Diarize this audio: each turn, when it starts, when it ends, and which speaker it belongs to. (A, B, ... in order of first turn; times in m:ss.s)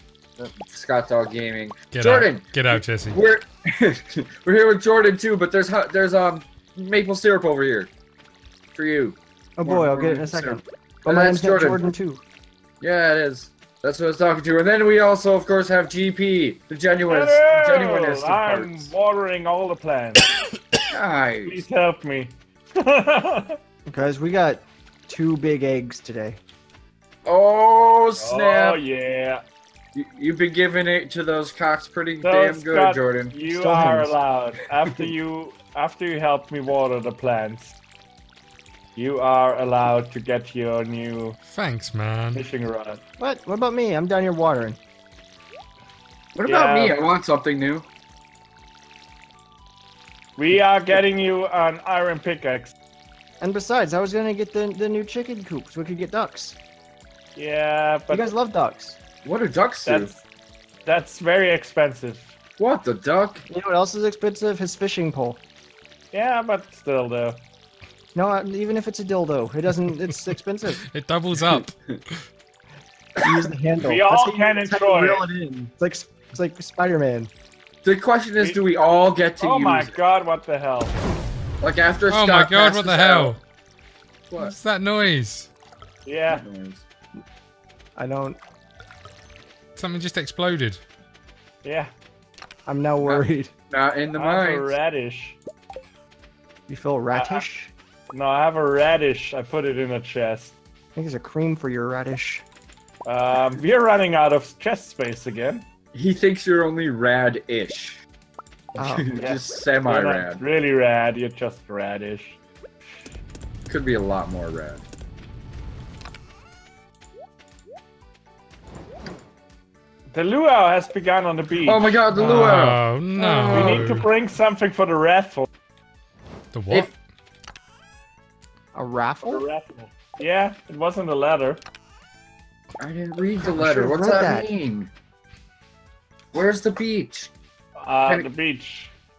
0:00.4-0:07.9 A
0:01.9-0:03.2 B
0:08.7-0:11.9 A
0:09.6-0:12.2 C
0:12.8-0:18.9 A
0:17.1-0:20.3 D
0:20.9-0:21.6 A
0:21.4-0:23.6 D
0:23.9-0:26.4 C
0:27.2-0:28.8 A
0:28.2-0:29.4 D
0:29.9-0:33.4 A
0:32.2-0:37.8 D
0:33.5-0:34.2 C
0:39.0-0:41.4 D
0:41.4-0:42.4 B
0:42.3-0:43.0 D
0:43.2-0:44.8 C
0:46.3-0:47.8 A
0:46.4-0:47.0 D
0:50.4-0:52.7 D
0:53.4-0:56.6 C
0:57.4-0:58.3 D
0:58.1-0:59.0 C
0:59.2-1:00.1 A
0:59.8-1:00.2 D
1:00.8-1:02.4 D
1:02.6-1:03.4 A
1:03.5-1:05.4 C
1:06.1-1:07.4 D
1:08.1-1:10.8 C
1:10.9-1:12.3 B
1:11.5-1:12.0 A
1:13.2-1:17.3 C
1:13.8-1:15.2 D
1:17.8-1:19.9 A
1:19.4-1:21.0 D
1:21.6-1:23.3 A
1:22.1-1:23.4 B
1:24.3-1:24.5 A
1:24.4-1:25.5 B
1:26.0-1:26.4 D
1:26.3-1:26.8 A
1:28.0-1:28.4 C
1:29.8-1:30.8 B
1:31.6-1:31.9 D
1:32.6-1:33.5 C
1:33.0-1:34.7 A
1:34.1-1:35.4 D
1:36.7-1:37.7 C
1:37.2-1:37.4 D
1:38.1-1:40.5 D
1:41.0-1:42.4 C
1:43.0-1:45.6 D
1:45.9-1:48.0 A
1:48.7-1:50.4 A
1:48.8-1:49.4 C
1:49.2-1:52.4 D
1:53.7-1:54.8 A
2:00.1-2:02.3 D
2:01.6-2:03.9 A
2:02.1-2:04.1 B
2:03.5-2:05.5 D
2:06.5-2:06.9 B
2:08.7-2:09.4 C
2:09.2-2:11.6 D
2:12.8-2:14.9 A
2:13.5-2:14.5 C
2:16.3-2:17.3 A
2:17.8-2:18.9 D